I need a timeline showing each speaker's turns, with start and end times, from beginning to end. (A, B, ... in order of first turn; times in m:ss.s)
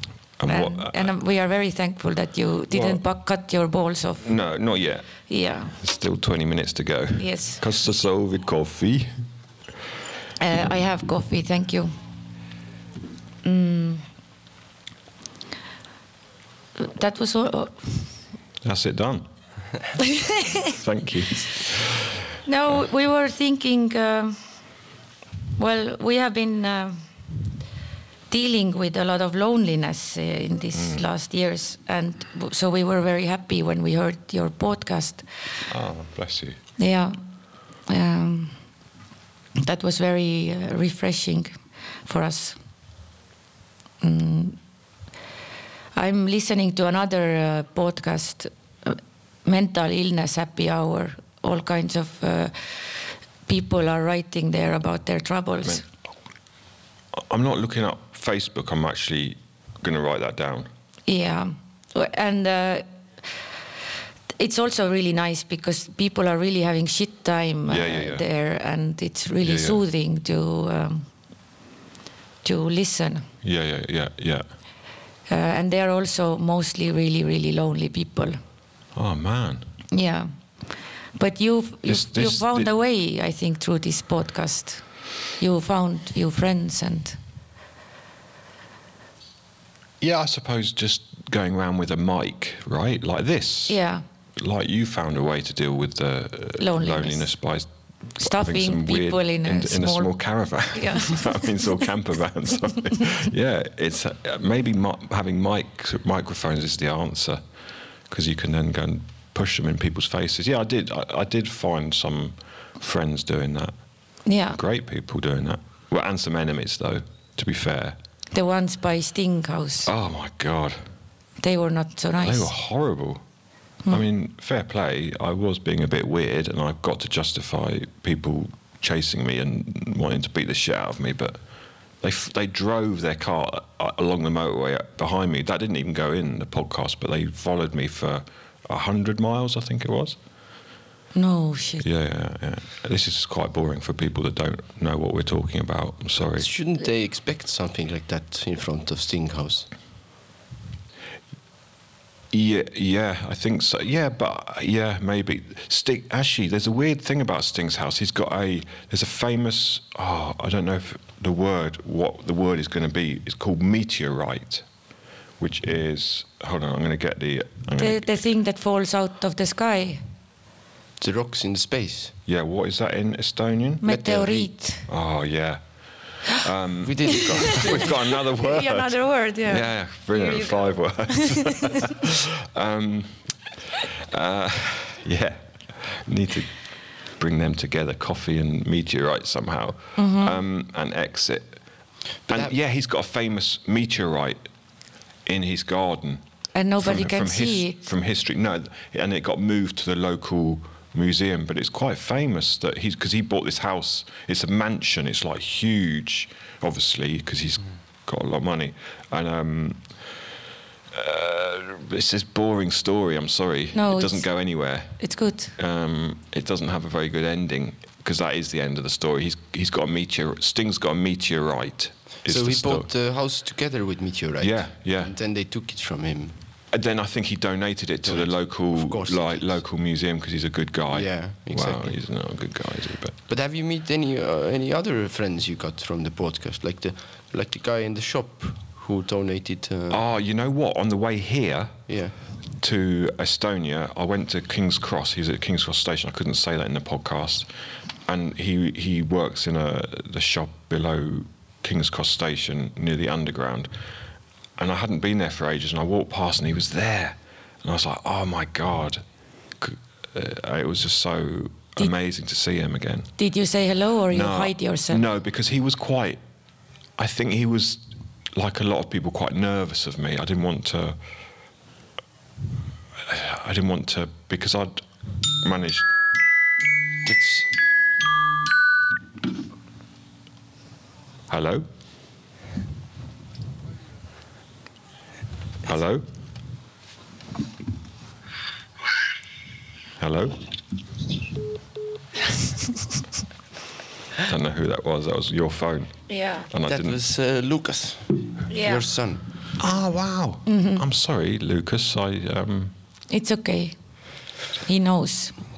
0:00.4-0:01.1 A
0:00.5-0:04.2 B
0:02.7-0:03.0 A
0:04.2-0:05.1 A
0:05.3-0:05.8 B
0:05.8-0:09.2 A
0:07.2-0:07.6 B
0:10.4-0:11.9 B
0:13.4-0:14.0 B
0:16.8-0:18.0 B
0:18.6-0:19.2 A
0:20.1-0:20.6 B
0:20.6-0:22.2 A
0:22.4-0:24.4 B
0:25.6-0:27.0 B
0:28.3-0:35.2 B
0:30.7-0:31.0 A
0:35.7-0:36.6 A
0:36.8-0:37.2 B
0:37.9-0:38.6 B
0:39.6-0:41.5 B
0:42.0-0:42.6 B
0:44.0-0:44.6 B
0:45.9-0:55.8 B
0:57.1-1:00.7 A
1:01.1-1:02.8 B
1:04.4-1:11.0 B
1:07.7-1:08.2 A
1:09.4-1:09.8 A
1:12.4-1:13.2 B
1:13.4-1:14.4 A
1:15.3-1:18.4 B
1:18.9-1:19.7 A
1:19.9-1:20.3 B
1:21.2-1:24.8 B
1:21.8-1:22.7 A
1:25.4-1:27.2 B
1:30.0-1:33.8 A
1:33.7-1:34.0 B
1:34.4-1:47.4 A
1:36.6-1:37.3 B
1:38.2-1:40.1 B
1:40.7-1:41.6 B
1:48.1-1:53.7 A
1:54.2-1:54.6 B
1:54.5-1:58.0 A
1:58.3-1:59.9 B
1:59.8-2:00.8 A
2:01.4-2:02.5 B
2:02.2-2:03.2 A
2:03.9-2:11.4 A
2:12.0-2:20.2 A
2:21.1-2:21.8 B
2:21.8-2:26.5 A
2:26.4-2:29.7 C
2:32.3-2:44.6 A
2:45.4-2:48.0 A
2:47.8-2:50.0 B
2:51.0-2:52.1 C
2:52.3-2:53.8 A
2:53.8-2:54.8 B
2:53.8-2:54.5 C
2:54.9-2:55.6 A
2:56.4-3:03.3 A
2:56.8-2:58.0 C
2:57.3-3:01.9 B
3:04.1-3:06.5 A
3:07.2-3:11.6 A
3:10.0-3:10.4 B
3:12.3-3:12.5 C
3:12.3-3:14.4 A
3:15.2-3:16.2 A
3:16.5-3:17.8 B
3:16.8-3:29.9 A
3:30.9-3:35.0 A
3:33.7-3:34.3 B
3:35.0-3:35.5 B
3:35.6-3:42.9 A
3:42.2-3:46.4 C
3:44.4-3:45.1 A
3:46.7-3:53.2 A
3:48.0-3:49.6 C
3:50.9-3:52.0 C
3:53.3-4:00.0 C
3:59.9-4:01.8 A
4:01.9-4:02.1 C
4:02.6-4:07.5 A
4:08.0-4:13.7 A
4:14.6-4:19.0 A
4:19.6-4:23.1 A
4:23.2-4:25.0 B
4:24.1-4:26.2 A
4:27.0-4:31.0 A
4:33.0-4:34.8 A
4:35.4-4:35.9 A
4:37.0-4:37.5 C
4:41.3-4:41.6 A
4:45.6-4:46.0 A
4:50.0-4:50.4 A
4:54.2-4:57.0 A
4:56.1-4:56.5 B
4:56.7-4:59.2 C
4:58.5-4:58.8 B
4:59.6-5:02.7 A
5:00.4-5:00.8 B
5:03.1-5:03.7 B
5:04.6-5:05.4 B